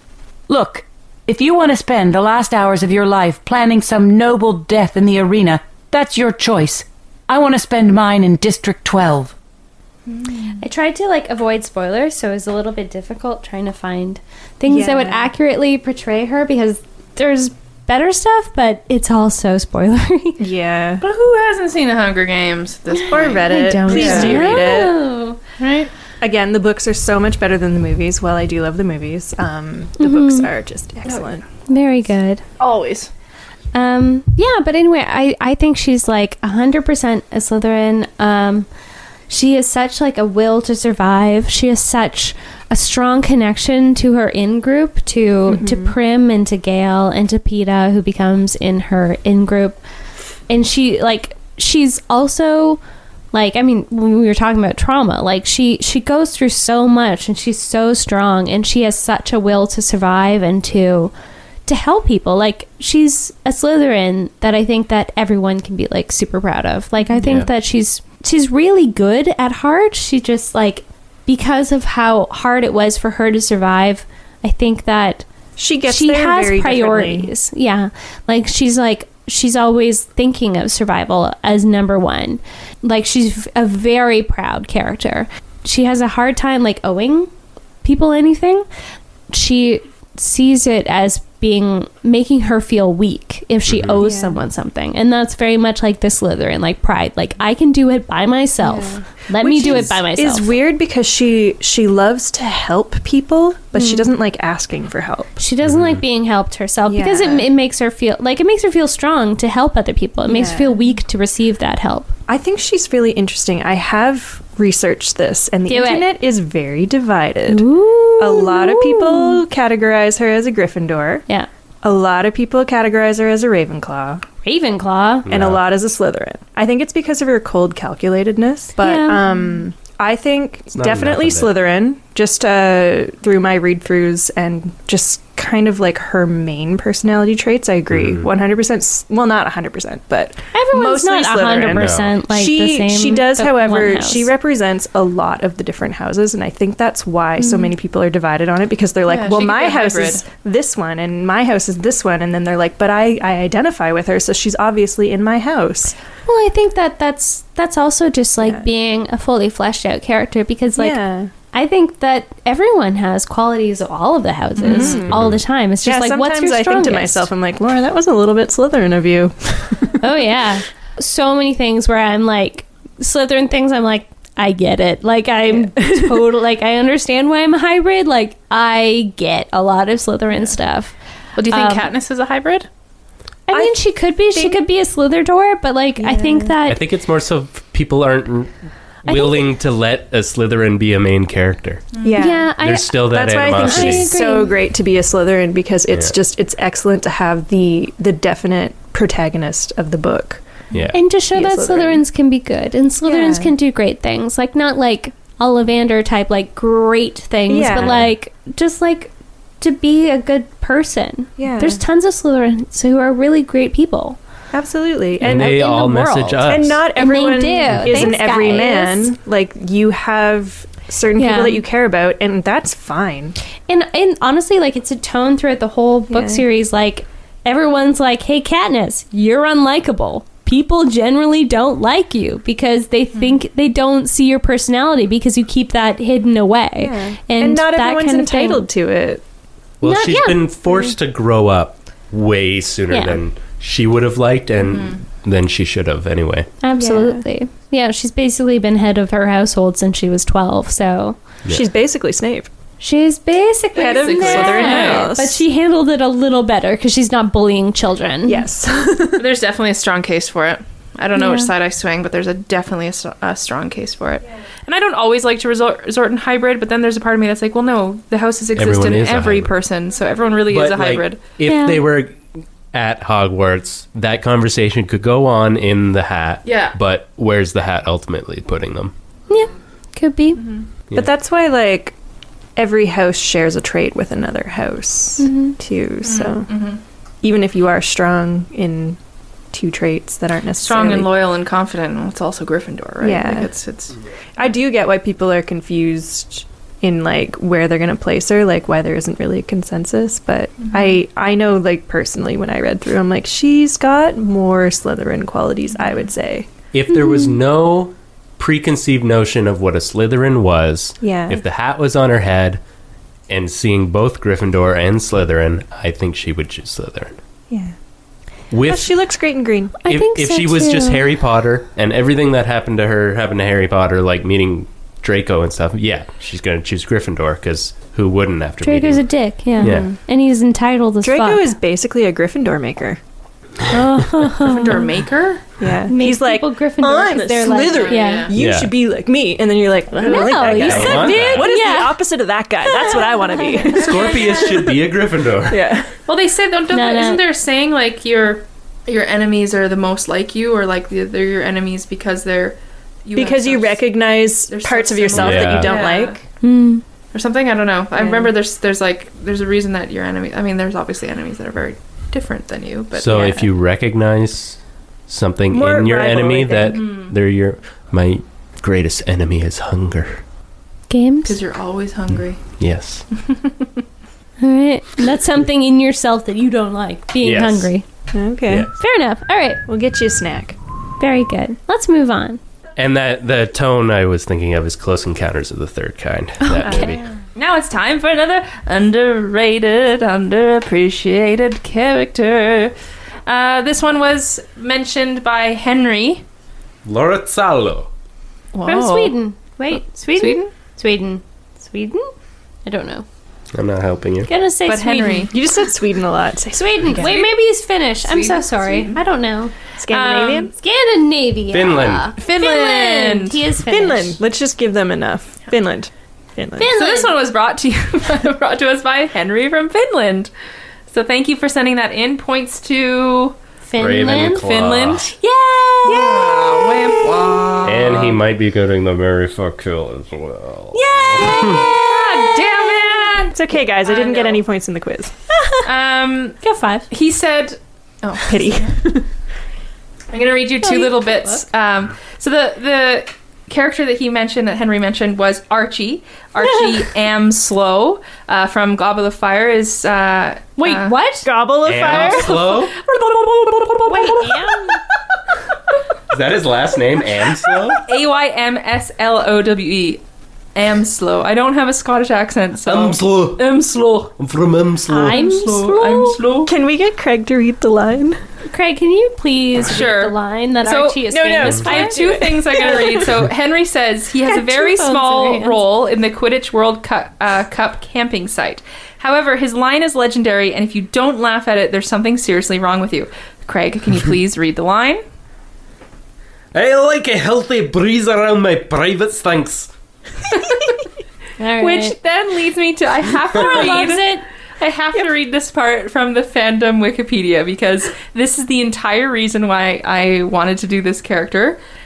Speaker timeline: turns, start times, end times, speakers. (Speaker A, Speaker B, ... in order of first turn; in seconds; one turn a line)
Speaker A: 0.5-9.3
Speaker B: 10.6-20.4
Speaker C: 14.7-15.3
Speaker C: 20.4-21.0
Speaker D: 21.0-24.8
Speaker B: 22.9-25.6
Speaker C: 23.1-25.0
Speaker D: 25.6-25.9
Speaker C: 26.2-31.4
Speaker B: 30.0-30.5
Speaker B: 31.7-32.4
Speaker D: 32.6-33.1
Speaker B: 33.7-38.7
Speaker B: 39.3-49.8
Speaker C: 45.5-45.9
Speaker B: 50.5-52.8
Speaker B: 53.3-61.1
Speaker B: 61.7-75.2
Speaker E: 67.2-67.5
Speaker C: 75.6-77.3
Speaker B: 75.8-87.3
Speaker B: 87.8-88.6
Speaker B: 89.3-100.5
Speaker E: 93.7-94.0
Speaker C: 94.0-94.4
Speaker C: 98.6-105.3
Speaker B: 103.7-104.1
Speaker B: 105.4-112.1
Speaker E: 105.6-106.0
Speaker C: 106.9-107.5
Speaker C: 110.2-110.8
Speaker C: 112.3-117.6
Speaker B: 115.7-116.1
Speaker B: 117.5-119.4
Speaker C: 118.2-121.2
Speaker C: 121.8-124.2
Speaker B: 124.4-125.3
Speaker E: 125.2-125.6
Speaker C: 125.3-155.9
Speaker B: 128.8-129.2
Speaker E: 130.7-131.5
Speaker E: 137.9-138.3
Speaker B: 140.5-144.3
Speaker E: 141.7-142.1
Speaker B: 147.4-147.7
Speaker D: 149.1-150.2
Speaker B: 156.2-167.3
Speaker C: 158.4-158.7
Speaker C: 160.8-161.3
Speaker D: 164.6-165.0
Speaker C: 164.6-165.2
Speaker E: 165.1-165.4
Speaker C: 165.8-170.0
Speaker B: 170.0-180.9
Speaker C: 175.5-176.3
Speaker D: 181.4-182.7
Speaker B: 181.5-181.9
Speaker B: 183.5-186.8
Speaker C: 183.5-183.8
Speaker C: 184.3-184.6
Speaker C: 186.0-186.6
Speaker E: 186.7-188.5
Speaker B: 189.0-189.4
Speaker E: 189.0-191.9
Speaker D: 191.9-192.2
Speaker C: 192.0-192.5
Speaker B: 192.2-194.5
Speaker E: 192.6-194.1
Speaker C: 193.0-200.4
Speaker B: 200.9-214.2
Speaker C: 201.3-202.0
Speaker C: 203.1-203.5
Speaker C: 207.5-208.0
Speaker E: 207.8-208.1
Speaker C: 211.4-211.8
Speaker C: 214.5-215.6
Speaker E: 215.2-216.8
Speaker B: 215.2-219.1
Speaker C: 216.4-223.3
Speaker E: 217.7-218.1
Speaker B: 221.2-221.6
Speaker B: 223.7-238.7
Speaker C: 226.1-226.4
Speaker C: 236.8-239.2
Speaker E: 239.8-246.5
Speaker B: 239.8-240.5
Speaker B: 242.9-243.2
Speaker D: 244.6-245.0
Speaker B: 246.6-251.2
Speaker C: 246.8-247.2
Speaker C: 251.5-252.5
Speaker B: 252.8-258.4
Speaker C: 253.7-255.4
Speaker D: 253.8-255.1
Speaker C: 258.2-259.3
Speaker D: 259.1-271.2
Speaker B: 261.1-261.5
Speaker E: 268.5-269.5
Speaker E: 270.5-272.2
Speaker B: 271.4-271.8
Speaker E: 272.7-278.9
Speaker D: 276.4-276.8
Speaker B: 279.3-280.4
Speaker D: 280.4-280.6
Speaker C: 280.9-281.9
Speaker C: 282.6-286.5
Speaker B: 285.2-285.6
Speaker D: 286.0-286.8
Speaker C: 287.2-289.0
Speaker C: 289.5-291.1
Speaker D: 290.6-294.0
Speaker C: 293.0-293.5
Speaker C: 294.4-306.5
Speaker D: 300.6-300.9
Speaker E: 306.7-312.6
Speaker B: 306.9-307.4
Speaker C: 311.0-311.4
Speaker E: 313.3-317.2
Speaker C: 317.5-317.7
Speaker E: 318.5-319.0
Speaker C: 318.6-319.7
Speaker B: 319.8-321.0
Speaker E: 319.9-329.1
Speaker B: 328.6-331.5
Speaker C: 329.6-329.9
Speaker E: 329.6-329.9
Speaker C: 331.0-333.0
Speaker B: 333.7-334.9
Speaker D: 334.4-335.4
Speaker C: 335.6-344.6
Speaker B: 335.9-338.3
Speaker D: 337.6-338.3
Speaker E: 338.3-338.7
Speaker B: 340.0-342.0
Speaker D: 340.0-340.3
Speaker E: 340.4-341.5
Speaker B: 342.7-343.8
Speaker D: 343.7-344.7
Speaker E: 343.8-345.8
Speaker C: 345.5-345.9
Speaker D: 346.1-353.8
Speaker B: 346.7-347.2
Speaker C: 353.1-356.2
Speaker D: 354.5-356.2
Speaker E: 355.1-355.8
Speaker B: 356.4-356.8
Speaker D: 357.1-363.5
Speaker C: 357.9-358.3
Speaker E: 362.9-370.2
Speaker C: 365.5-366.8
Speaker D: 366.7-367.1
Speaker B: 370.9-371.4
Speaker D: 371.2-372.4
Speaker E: 372.1-373.0
Speaker D: 373.2-373.6
Speaker B: 374.4-377.8
Speaker E: 377.2-377.7
Speaker C: 378.1-378.7
Speaker B: 378.7-379.6
Speaker C: 379.7-380.6
Speaker B: 381.0-382.4
Speaker E: 382.8-387.0
Speaker B: 386.5-386.8
Speaker C: 386.6-387.0
Speaker D: 386.6-392.7
Speaker D: 393.3-396.2
Speaker E: 396.8-397.9
Speaker D: 398.5-399.1
Speaker B: 398.6-402.1
Speaker D: 400.1-400.5
Speaker B: 402.6-403.0
Speaker E: 403.5-404.3
Speaker B: 404.3-405.3
Speaker D: 404.6-405.3
Speaker C: 405.3-407.2
Speaker B: 406.5-409.5
Speaker D: 406.9-407.3
Speaker D: 408.0-409.0
Speaker C: 409.8-410.5
Speaker D: 409.9-410.5
Speaker B: 410.5-414.2
Speaker E: 411.5-412.1
Speaker D: 412.2-413.4
Speaker C: 413.6-416.7
Speaker B: 416.6-417.1
Speaker D: 416.7-420.3
Speaker D: 420.9-423.4
Speaker B: 423.6-424.4
Speaker E: 423.8-425.1
Speaker D: 424.3-425.1
Speaker B: 425.1-426.6
Speaker D: 425.8-428.2
Speaker C: 425.9-426.7
Speaker E: 427.6-431.7
Speaker B: 430.7-433.1
Speaker D: 431.8-434.4
Speaker C: 433.3-435.1
Speaker B: 435.3-435.7
Speaker D: 435.6-438.7
Speaker B: 436.4-436.9
Speaker C: 438.2-439.1
Speaker D: 440.1-450.9
Speaker B: 440.6-441.4
Speaker B: 446.4-446.8
Speaker B: 450.6-451.3
Speaker C: 451.2-452.5
Speaker E: 451.6-452.7
Speaker D: 451.8-454.4
Speaker B: 453.9-454.8
Speaker E: 456.1-457.8
Speaker D: 457.8-460.0
Speaker D: 460.5-464.1
Speaker E: 462.6-463.6
Speaker E: 464.2-465.2
Speaker B: 464.9-466.2
Speaker D: 464.9-466.5
Speaker C: 466.4-468.2
Speaker B: 468.5-472.0
Speaker D: 469.6-485.0
Speaker C: 471.1-473.2
Speaker B: 474.2-475.6
Speaker E: 486.5-489.7
Speaker D: 490.3-490.8
Speaker B: 491.4-491.9
Speaker D: 491.6-494.1
Speaker B: 493.3-494.2
Speaker D: 494.6-501.6